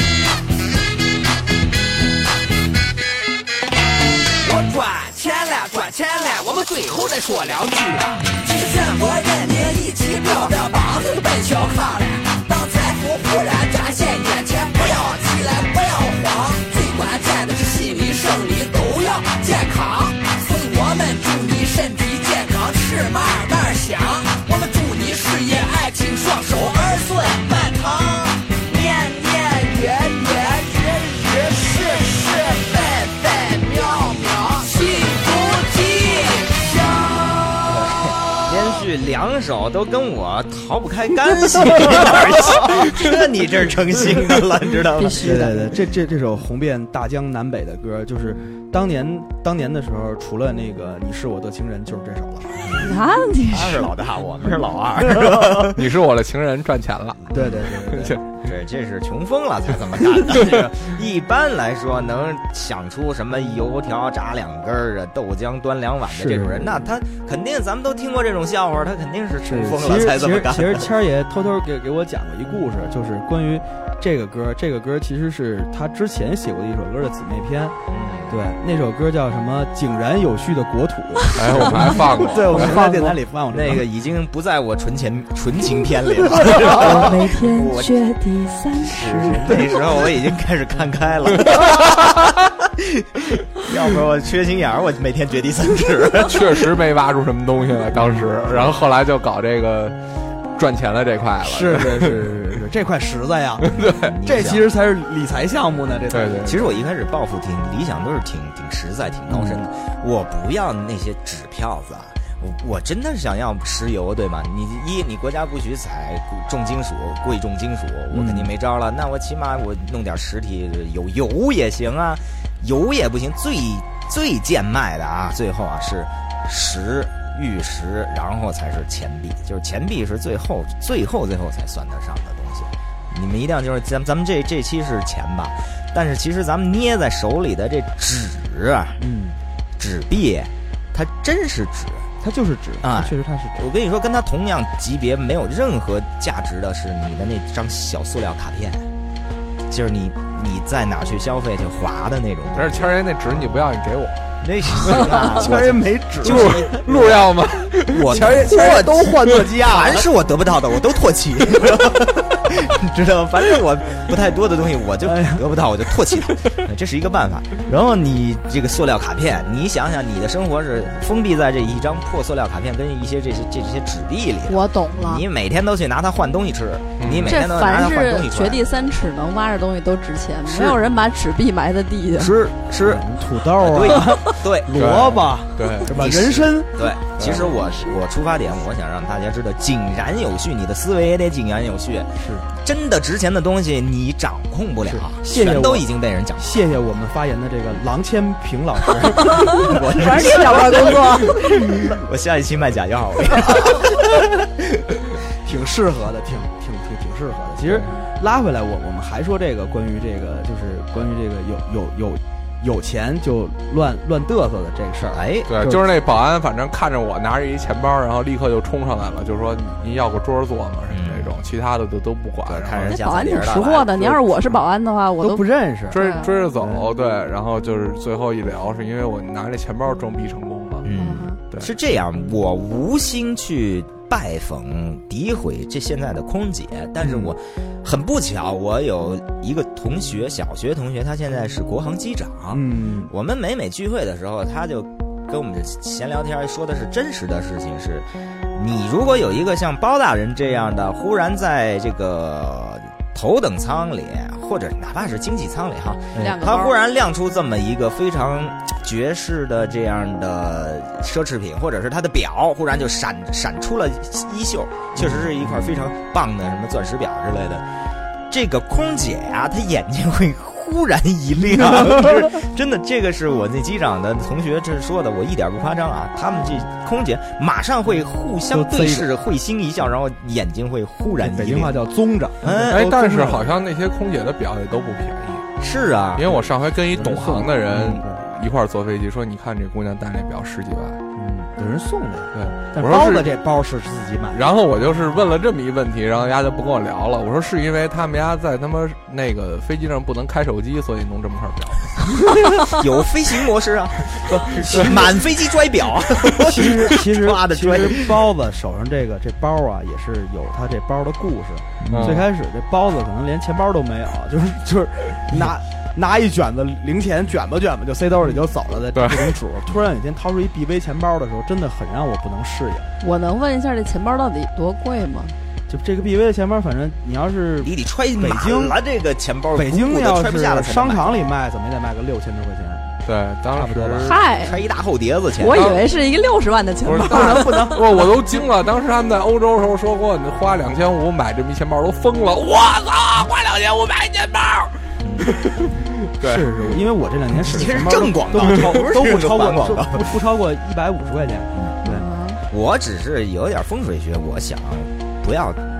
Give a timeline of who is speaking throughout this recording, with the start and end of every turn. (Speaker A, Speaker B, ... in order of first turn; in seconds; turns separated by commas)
Speaker A: 4.4-37.6, Speaker B: 37.7-45.5, Speaker C: 45.0-45.7, Speaker D: 45.2-52.5, Speaker B: 52.7-52.9, Speaker C: 52.7-53.9, Speaker B: 53.5-55.9, Speaker E: 55.6-58.2, Speaker D: 57.3-58.1, Speaker B: 57.3-57.6, Speaker B: 58.4-70.9, Speaker D: 66.1-66.8, Speaker D: 69.5-77.8, Speaker B: 77.9-78.4, Speaker D: 78.3-83.8, Speaker E: 81.3-82.8, Speaker C: 82.5-83.2, Speaker B: 83.5-88.0, Speaker C: 86.5-89.8, Speaker B: 88.8-96.7, Speaker E: 96.3-100.0, Speaker E: 100.5-102.3, Speaker D: 101.4-106.5, Speaker E: 103.6-104.1, Speaker B: 103.7-104.7, Speaker E: 106.1-106.6, Speaker B: 106.5-139.0, Speaker D: 109.3-109.6, Speaker D: 118.1-118.5, Speaker D: 139.0-139.4, Speaker B: 139.8-142.1, Speaker D: 142.2-143.7, Speaker B: 142.8-148.9, Speaker B: 149.7-152.9, Speaker E: 152.6-154.2, Speaker B: 154.4-178.6, Speaker D: 155.3-157.1, Speaker E: 156.2-158.5, Speaker D: 158.0-160.1, Speaker D: 165.0-165.4, Speaker C: 174.5-175.2, Speaker E: 177.0-177.4, Speaker C: 177.2-182.3, Speaker B: 180.5-180.8, Speaker B: 182.2-184.8, Speaker D: 182.8-186.7, Speaker E: 184.8-185.9, Speaker B: 185.8-196.6, Speaker E: 187.2-187.5, Speaker D: 192.2-192.4, Speaker D: 194.9-201.1, Speaker C: 199.4-201.6, Speaker B: 200.5-204.8, Speaker D: 205.4-215.8, Speaker E: 207.7-208.0, Speaker B: 215.1-215.6, Speaker E: 215.5-223.0, Speaker B: 220.9-221.4, Speaker B: 222.5-224.0, Speaker C: 222.9-226.3, Speaker D: 224.0-224.6, Speaker D: 225.2-226.0, Speaker E: 225.9-230.9, Speaker D: 226.6-226.8, Speaker B: 230.9-267.7, Speaker C: 230.9-231.4, Speaker D: 237.0-237.3, Speaker D: 242.5-243.1, Speaker C: 256.2-256.8, Speaker D: 264.9-265.8, Speaker B: 268.3-281.8, Speaker D: 271.7-272.0, Speaker D: 278.5-279.1, Speaker D: 281.2-283.5, Speaker B: 282.4-282.9, Speaker E: 282.6-285.5, Speaker B: 285.6-286.5, Speaker E: 286.2-291.0, Speaker D: 286.9-288.2, Speaker D: 291.1-294.4, Speaker E: 292.3-293.4, Speaker E: 294.3-302.0, Speaker B: 302.6-308.1, Speaker D: 304.3-305.1, Speaker D: 306.4-322.9, Speaker E: 311.9-312.3, Speaker E: 318.9-319.3, Speaker C: 323.0-325.3, Speaker D: 325.7-328.8, Speaker B: 327.6-331.3, Speaker D: 329.6-333.0, Speaker E: 333.1-334.2, Speaker D: 333.6-334.1, Speaker C: 334.1-334.6, Speaker B: 334.4-335.8, Speaker C: 335.4-337.8, Speaker E: 335.5-335.9, Speaker E: 336.8-346.5, Speaker D: 337.0-337.8, Speaker B: 345.0-345.3, Speaker D: 346.2-352.1, Speaker B: 347.4-350.1, Speaker C: 351.8-352.4, Speaker B: 352.5-355.6